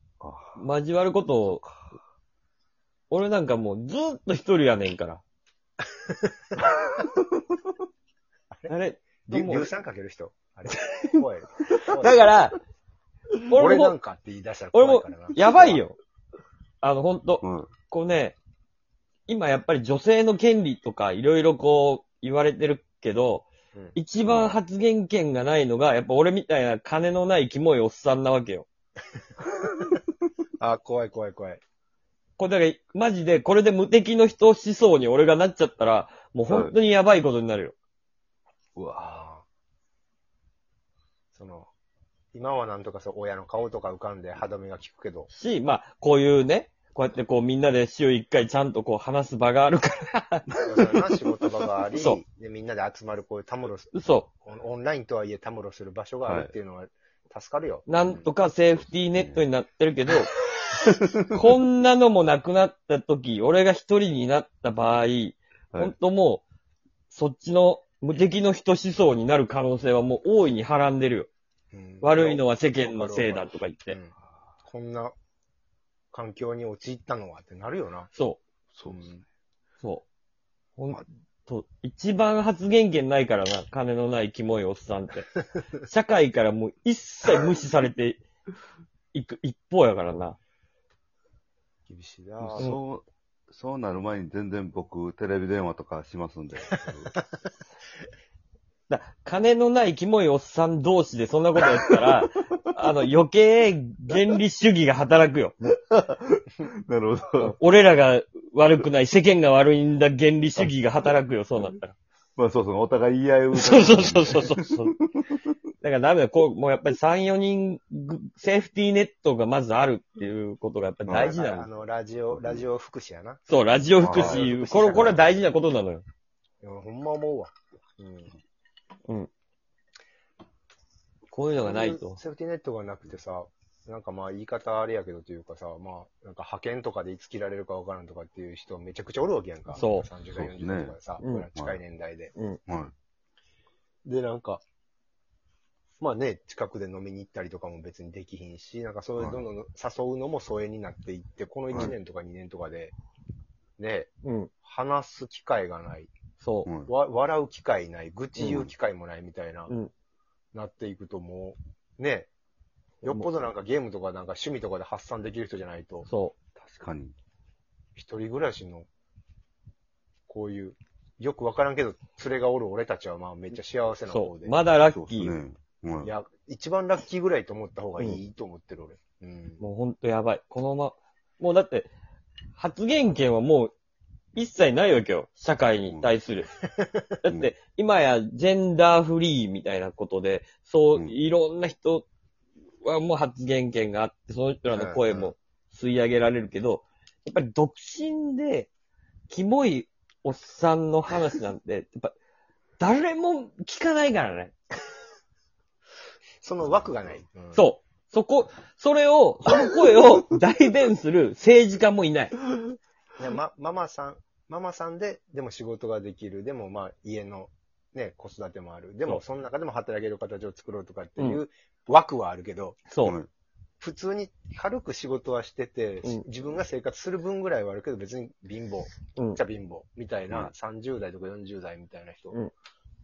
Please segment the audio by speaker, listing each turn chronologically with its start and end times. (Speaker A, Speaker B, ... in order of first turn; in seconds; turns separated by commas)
Speaker A: 0.2-0.7, Speaker B: 0.6-1.6, Speaker A: 1.4-1.7, Speaker B: 3.1-5.2, Speaker B: 8.7-9.7, Speaker C: 9.3-12.4, Speaker B: 11.7-12.6, Speaker B: 13.5-13.9, Speaker C: 13.6-15.8, Speaker B: 14.7-16.0, Speaker B: 16.8-18.4, Speaker A: 17.4-17.7, Speaker B: 19.3-28.7, Speaker A: 24.2-24.6, Speaker C: 30.6-31.6, Speaker B: 32.4-37.8, Speaker A: 36.5-36.8, Speaker A: 38.8-39.2, Speaker C: 39.0-39.4, Speaker C: 41.3-41.7, Speaker C: 42.3-45.3, Speaker B: 45.3-50.5, Speaker A: 50.6-50.9, Speaker C: 50.6-58.3, Speaker B: 51.9-52.2, Speaker B: 53.9-54.3, Speaker A: 56.3-56.5, Speaker B: 57.9-60.3, Speaker A: 58.8-59.5, Speaker B: 61.3-66.4, Speaker B: 67.1-71.3, Speaker C: 71.7-75.1, Speaker B: 72.0-74.0, Speaker C: 76.1-78.1, Speaker B: 78.1-78.4, Speaker A: 78.7-79.1, Speaker C: 78.9-79.2, Speaker B: 80.8-85.3, Speaker B: 85.8-88.2, Speaker B: 89.1-90.4, Speaker C: 91.9-92.7, Speaker A: 92.4-97.1, Speaker B: 98.9-105.6, Speaker A: 105.7-107.6, Speaker B: 107.4-112.0, Speaker A: 112.4-114.6, Speaker B: 113.5-115.0, Speaker B: 115.8-121.7, Speaker A: 121.1-121.3, Speaker C: 121.1-123.4, Speaker A: 122.3-122.6, Speaker B: 123.5-126.0, Speaker A: 124.0-125.1, Speaker C: 124.1-125.3, Speaker C: 126.6-128.4, Speaker B: 131.3-132.2, Speaker C: 131.6-142.3, Speaker B: 139.7-140.1, Speaker A: 140.3-141.0, Speaker B: 141.2-141.5, Speaker A: 141.6-141.8, Speaker A: 142.7-142.9, Speaker C: 144.1-144.6, Speaker C: 146.0-152.9, Speaker A: 149.2-149.5, Speaker C: 153.8-154.1, Speaker B: 154.2-154.5, Speaker C: 154.6-156.1, Speaker B: 156.4-156.7, Speaker C: 156.9-159.7, Speaker A: 158.4-158.7, Speaker C: 160.5-162.3, Speaker B: 163.0-163.3, Speaker C: 163.0-166.1, Speaker B: 166.1-166.3, Speaker A: 166.6-167.2, Speaker C: 168.0-168.9, Speaker C: 170.3-174.6, Speaker B: 174.1-175.3, Speaker A: 174.9-176.1, Speaker C: 176.0-179.6, Speaker B: 179.6-181.9, Speaker B: 182.6-183.7, Speaker B: 184.3-186.5, Speaker B: 187.2-192.1, Speaker A: 187.3-187.5, Speaker B: 192.8-198.7, Speaker C: 194.7-195.3, Speaker B: 199.3-202.2, Speaker B: 202.8-204.6, Speaker C: 206.4-207.7, Speaker A: 206.6-207.2, Speaker B: 207.6-212.3, Speaker C: 213.2-222.9, Speaker B: 222.9-223.2, Speaker A: 223.0-223.3, Speaker C: 223.8-232.4, Speaker B: 229.2-229.4